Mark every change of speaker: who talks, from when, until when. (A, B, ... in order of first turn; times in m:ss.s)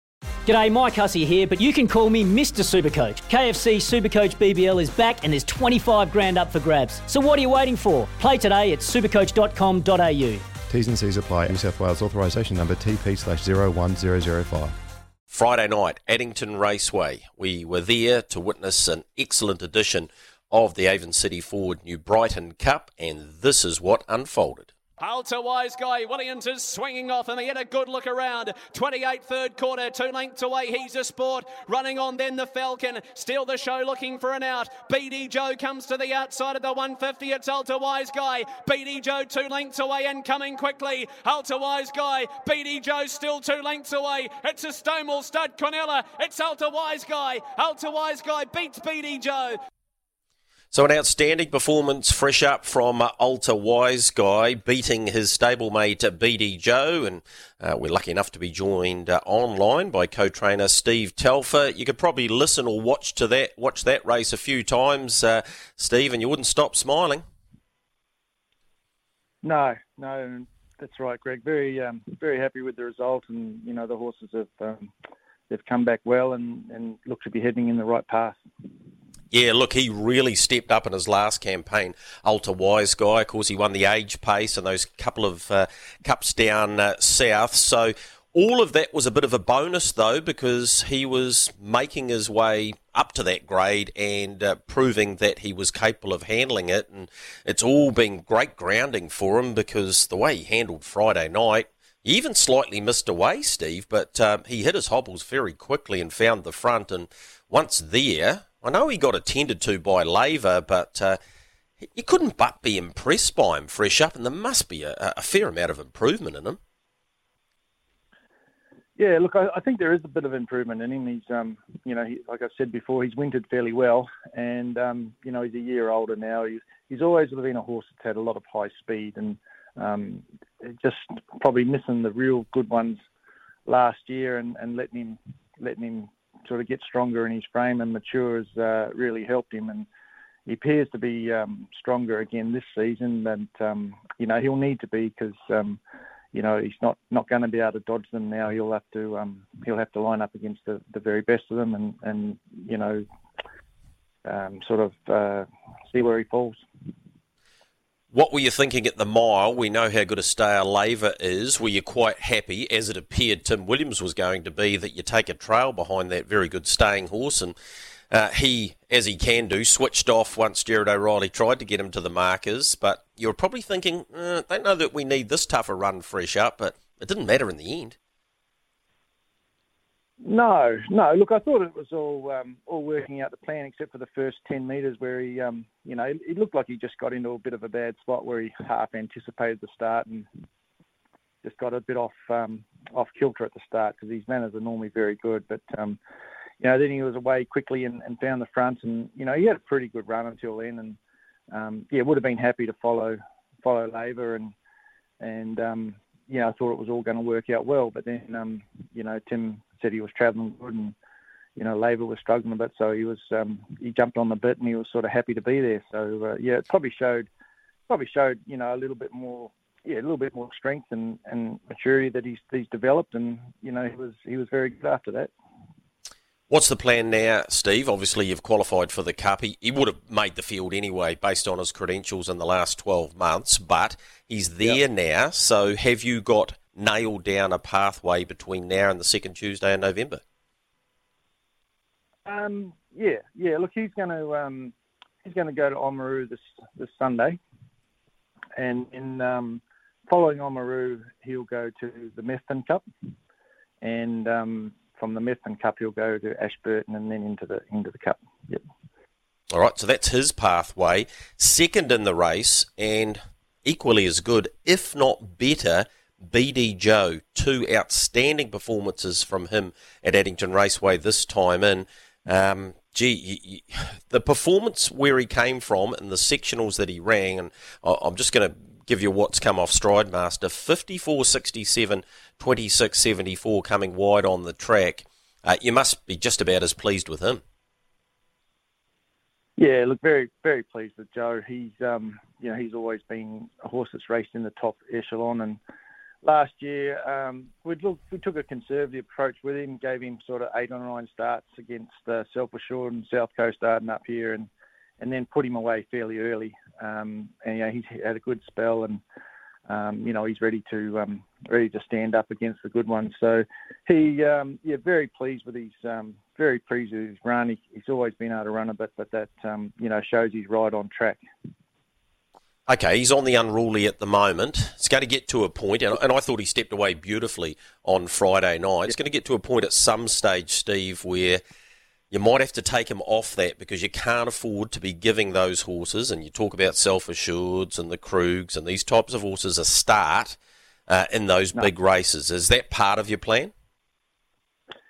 0:00.5-0:10.4 A
0:10.7-0:14.8 B
0:15.3-0:24.7 C
0:25.0-0:49.6 D
0:50.7-1:07.2 C
1:09.4-1:14.9 E
1:15.5-1:18.4 E
1:19.3-1:51.2 C
1:51.9-1:56.6 C
1:59.0-2:13.0 E
2:13.7-2:19.9 E
2:20.5-2:25.8 E
2:26.3-2:33.0 E
2:34.2-2:36.6 E
2:38.1-2:47.6 C
2:48.1-2:58.0 C
3:00.2-3:10.3 E
3:11.4-3:16.0 E
3:16.6-3:21.0 E
3:21.5-3:24.5 E
3:25.2-3:30.9 E
3:31.6-3:37.3 E
3:37.9-3:45.3 E
3:46.5-4:00.2 C
4:02.3-4:07.4 E
4:08.6-4:12.8 E
4:13.8-4:18.6 E
4:19.5-4:47.4 C
4:49.6-4:55.6 E
4:56.2-5:04.5 E
5:05.0-5:09.0 E
5:09.7-5:21.2 E
5:22.7-5:31.4 C
5:32.1-5:43.5 C